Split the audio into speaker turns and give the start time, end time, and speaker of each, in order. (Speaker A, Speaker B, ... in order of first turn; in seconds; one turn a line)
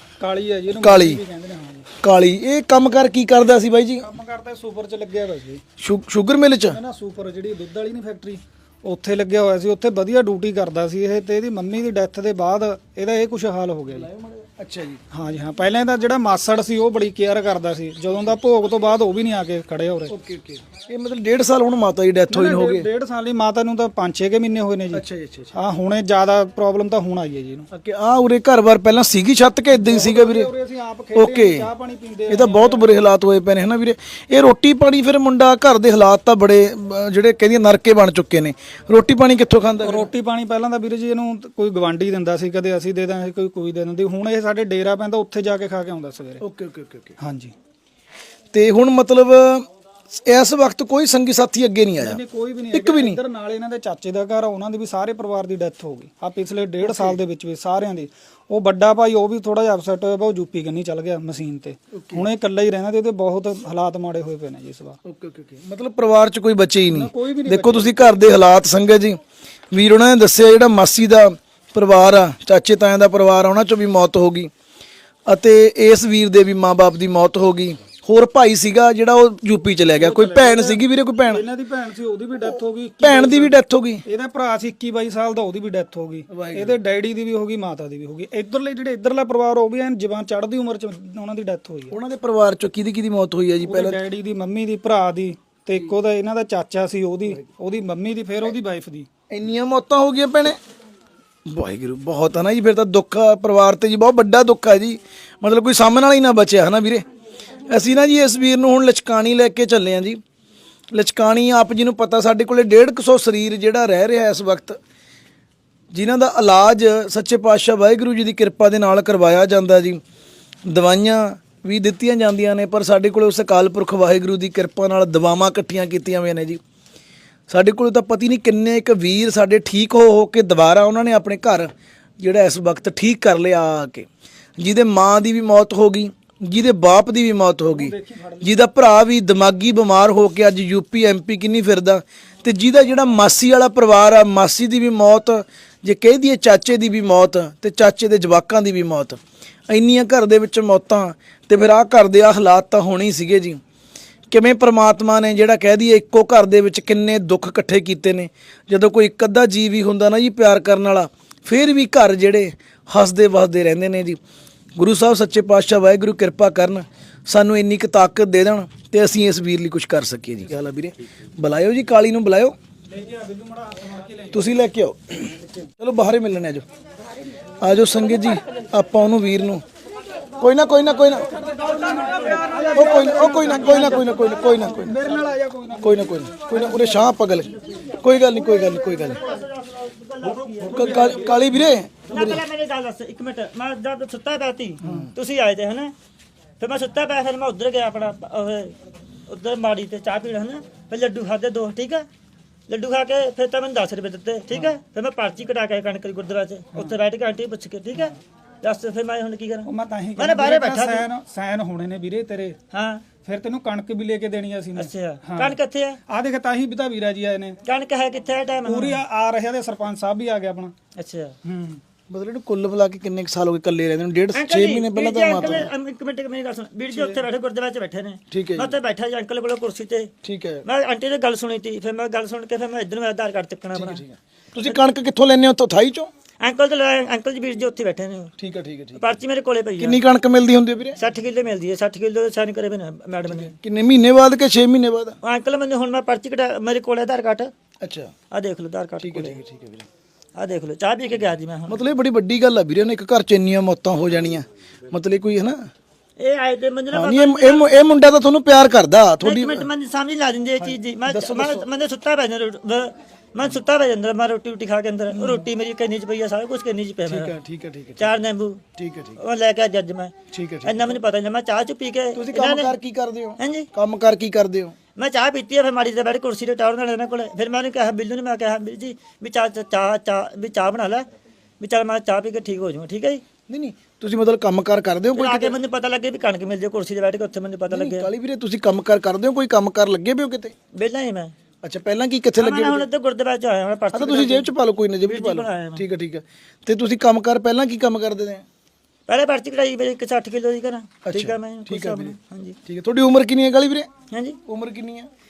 Speaker A: 0.2-1.9
Speaker B: 0.8-1.2
Speaker B: 2.0-4.1
Speaker A: 4.0-5.6
Speaker B: 5.8-6.8
Speaker A: 6.7-14.1
Speaker B: 13.9-15.0
Speaker A: 15.1-20.1
Speaker B: 20.1-22.9
Speaker A: 22.3-25.0
Speaker B: 24.9-25.5
Speaker A: 25.5-27.7
Speaker B: 27.7-30.5
Speaker A: 29.7-32.9
Speaker B: 31.1-31.7
Speaker B: 32.3-40.1
Speaker A: 39.8-46.4
Speaker B: 46.4-47.2
Speaker A: 47.2-47.5
Speaker B: 48.5-52.2
Speaker A: 52.0-65.0
Speaker B: 52.7-53.2
Speaker B: 56.8-57.2
Speaker B: 61.9-62.3
Speaker B: 65.0-69.2
Speaker A: 66.9-68.0
Speaker B: 69.7-74.5
Speaker B: 75.3-81.5
Speaker A: 80.0-83.5
Speaker B: 83.0-84.0
Speaker A: 84.1-91.9
Speaker B: 86.3-86.8
Speaker B: 91.9-94.0
Speaker A: 93.6-99.1
Speaker B: 99.3-100.6
Speaker B: 101.5-107.0
Speaker B: 107.7-110.2
Speaker B: 110.9-114.8
Speaker B: 115.9-120.0
Speaker B: 120.7-126.6
Speaker B: 127.5-134.1
Speaker B: 134.6-153.6
Speaker A: 137.8-138.5
Speaker B: 154.3-164.2
Speaker B: 164.8-172.5
Speaker A: 172.9-174.3
Speaker B: 174.3-176.6
Speaker B: 177.6-179.6
Speaker B: 180.4-181.3
Speaker A: 181.4-186.1
Speaker B: 182.7-185.0
Speaker B: 185.8-189.2
Speaker C: 188.3-191.3
Speaker B: 190.6-192.4
Speaker C: 192.1-195.9
Speaker B: 194.8-195.1
Speaker C: 196.6-198.8
Speaker C: 199.3-202.1
Speaker C: 202.7-211.1
Speaker A: 209.7-212.6
Speaker C: 212.7-213.2
Speaker A: 213.2-215.5
Speaker C: 214.8-216.0
Speaker A: 216.1-217.6
Speaker C: 217.7-219.0
Speaker A: 218.7-220.8
Speaker C: 220.9-221.3
Speaker A: 221.4-221.8
Speaker B: 222.1-225.7
Speaker C: 224.3-230.1
Speaker B: 228.3-228.7
Speaker B: 230.2-230.6
Speaker C: 230.7-234.0
Speaker B: 233.8-236.1
Speaker C: 236.4-238.3
Speaker B: 238.4-239.1
Speaker C: 239.0-240.0
Speaker B: 239.8-241.0
Speaker C: 241.0-243.5
Speaker B: 243.3-245.2
Speaker C: 245.2-247.5
Speaker B: 247.8-248.1
Speaker C: 248.3-249.4
Speaker B: 249.0-249.9
Speaker C: 250.3-251.8
Speaker B: 251.7-255.7
Speaker C: 256.2-257.7
Speaker B: 256.9-259.7
Speaker C: 259.2-267.4
Speaker B: 260.6-261.7
Speaker B: 265.1-265.4
Speaker B: 267.1-268.1
Speaker C: 268.0-268.6
Speaker B: 268.8-269.2
Speaker C: 269.2-272.8
Speaker B: 270.3-271.0
Speaker B: 272.1-274.8
Speaker C: 273.4-273.7
Speaker C: 275.0-281.1
Speaker C: 281.6-283.2
Speaker B: 283.5-285.6
Speaker C: 285.1-288.1
Speaker B: 287.7-290.5
Speaker C: 290.7-291.3
Speaker B: 291.6-292.9
Speaker C: 292.4-295.8
Speaker B: 293.9-298.4
Speaker C: 299.1-302.6
Speaker B: 301.1-303.9
Speaker C: 304.1-304.4
Speaker B: 304.5-305.1